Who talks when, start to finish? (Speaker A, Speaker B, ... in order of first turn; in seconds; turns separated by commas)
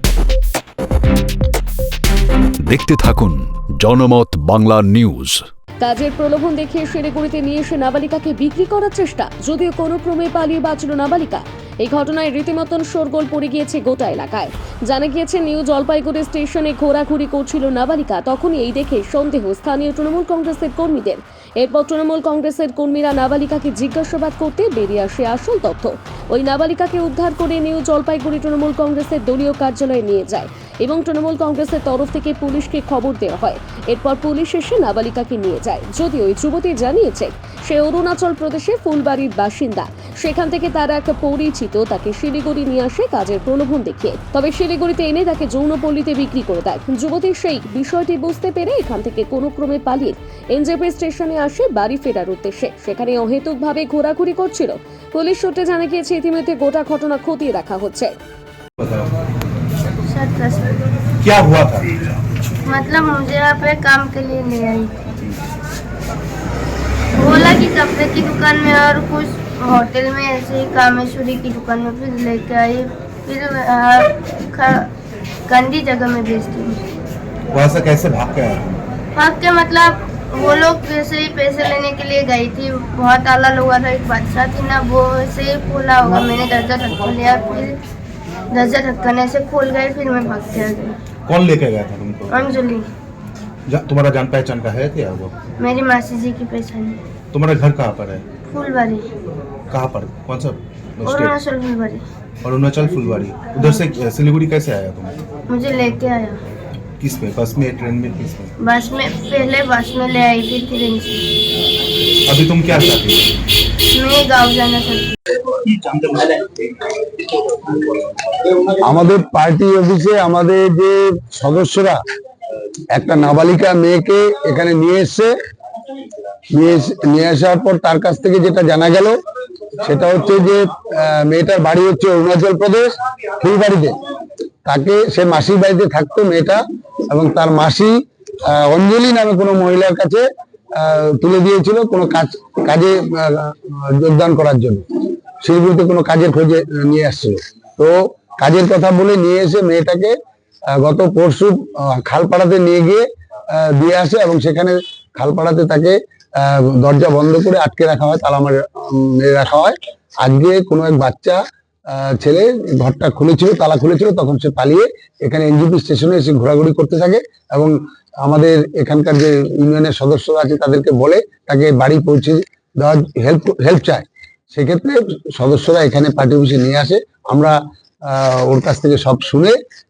Speaker A: 2.6-5.5, Speaker B: 5.8-58.1, Speaker C: 58.8-59.1, Speaker D: 60.0-60.8, Speaker C: 61.2-62.0, Speaker D: 62.6-65.0, Speaker D: 67.1-74.9, Speaker D: 75.5-76.8, Speaker C: 77.5-78.8, Speaker D: 79.1-87.8, Speaker D: 88.5-91.0, Speaker C: 91.3-92.5, Speaker D: 92.3-92.9, Speaker C: 93.7-95.3, Speaker D: 95.6-97.0, Speaker C: 97.3-98.2, Speaker D: 98.5-99.1, Speaker C: 99.7-101.3, Speaker D: 101.0-102.0, Speaker C: 102.4-105.2, Speaker D: 105.5-106.4, Speaker C: 107.0-108.5, Speaker D: 108.6-111.2, Speaker C: 112.2-113.2, Speaker D: 113.9-115.3, Speaker E: 118.7-122.0, Speaker E: 122.9-125.3, Speaker E: 126.5-129.1, Speaker E: 129.8-134.0, Speaker E: 134.6-144.8, Speaker E: 145.4-150.1, Speaker E: 150.7-179.6